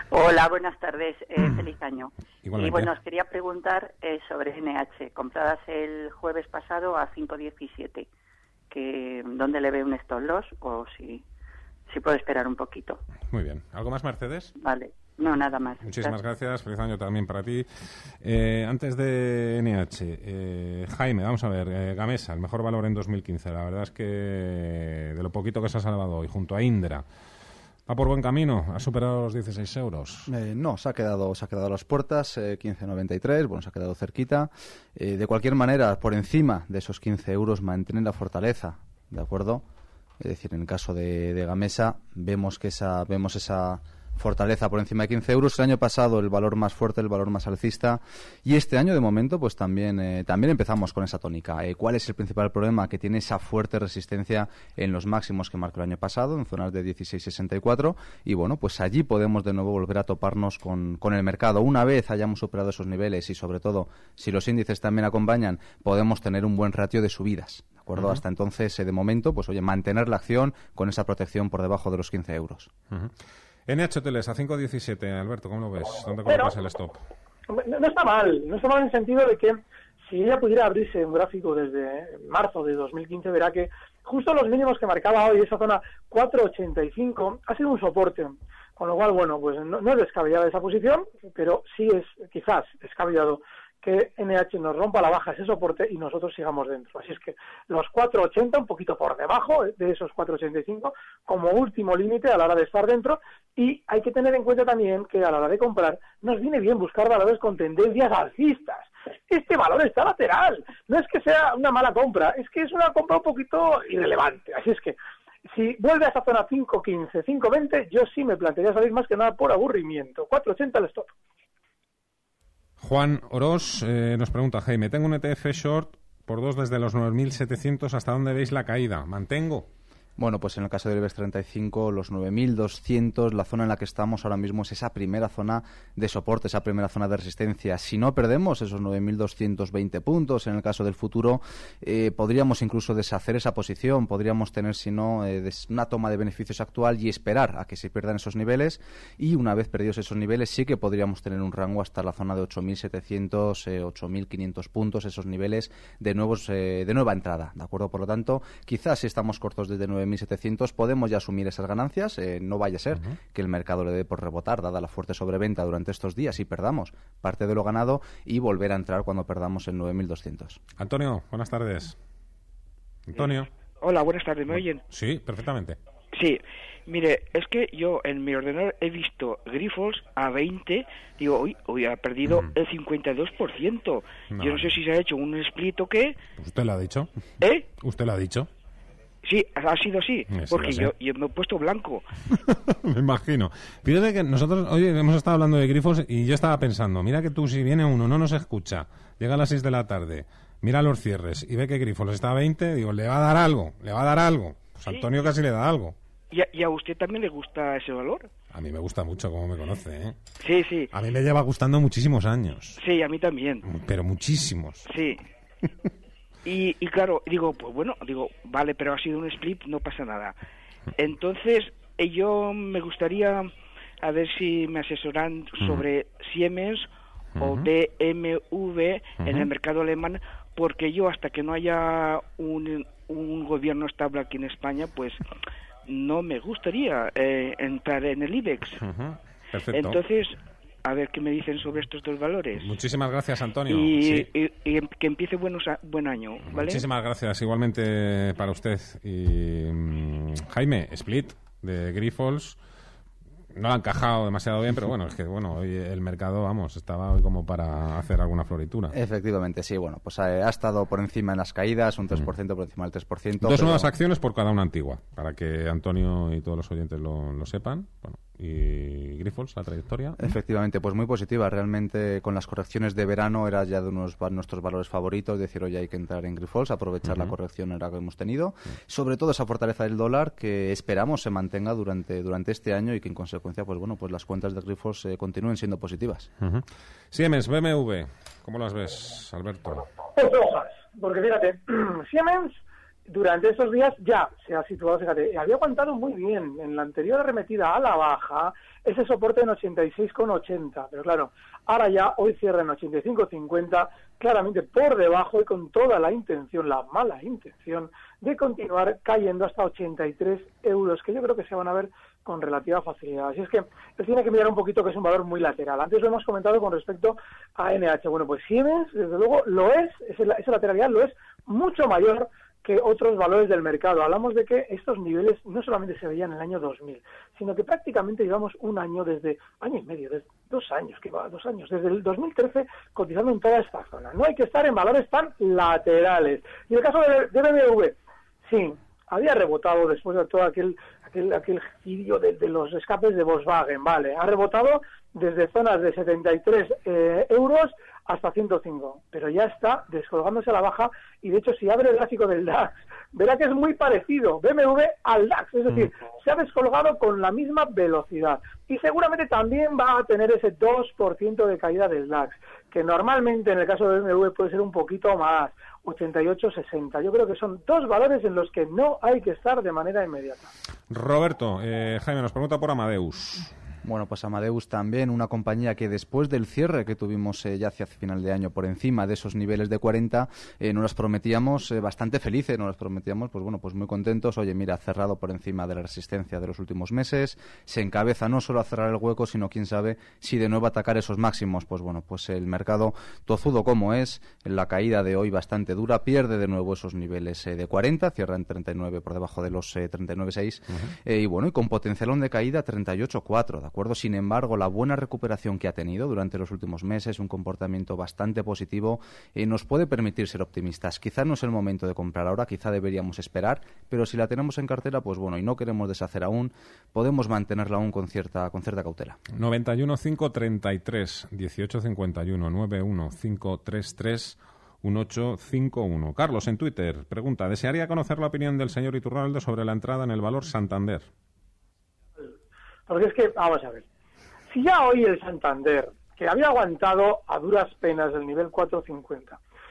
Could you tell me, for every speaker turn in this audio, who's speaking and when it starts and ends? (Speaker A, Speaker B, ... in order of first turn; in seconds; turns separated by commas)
Speaker A: 0.1-8.1, Speaker B: 2.4-2.9, Speaker A: 8.7-11.2, Speaker A: 11.9-13.0, Speaker B: 13.3-14.5, Speaker A: 14.6-16.1, Speaker B: 15.8-17.7, Speaker B: 18.2-27.0, Speaker B: 27.9-30.3, Speaker C: 30.3-39.6, Speaker C: 40.2-72.7, Speaker B: 67.9-68.2, Speaker B: 73.7-77.0, Speaker D: 76.2-76.5, Speaker D: 77.5-115.0, Speaker D: 115.5-121.1, Speaker B: 122.8-129.7, Speaker C: 130.2-170.6, Speaker B: 170.8-171.9, Speaker B: 173.1-173.5, Speaker E: 173.1-174.8, Speaker B: 174.5-175.8, Speaker E: 176.1-186.2, Speaker B: 182.2-182.5, Speaker B: 184.3-184.8, Speaker B: 186.4-187.1, Speaker E: 187.4-187.7, Speaker B: 187.8-188.5, Speaker E: 189.2-192.1, Speaker B: 190.3-190.9, Speaker B: 192.3-205.9, Speaker E: 206.3-208.3, Speaker B: 208.5-210.2, Speaker E: 210.4-210.9, Speaker B: 210.9-212.8, Speaker E: 212.8-213.6, Speaker B: 213.6-214.8, Speaker E: 214.8-215.2, Speaker E: 216.4-220.4, Speaker E: 220.9-235.2, Speaker B: 227.4-227.7, Speaker B: 229.2-229.5, Speaker E: 235.8-238.8, Speaker B: 238.8-240.0, Speaker E: 239.7-242.7, Speaker B: 242.6-244.3, Speaker E: 243.7-246.8, Speaker B: 246.5-252.6, Speaker B: 253.5-258.9, Speaker C: 258.9-263.9, Speaker B: 263.4-270.3, Speaker C: 270.2-286.3, Speaker B: 277.0-277.3, Speaker B: 286.4-289.9, Speaker D: 290.1-370.5, Speaker B: 370.9-373.5, Speaker C: 373.8-419.2, Speaker B: 419.3-431.1, Speaker D: 432.9-433.8, Speaker D: 434.5-439.4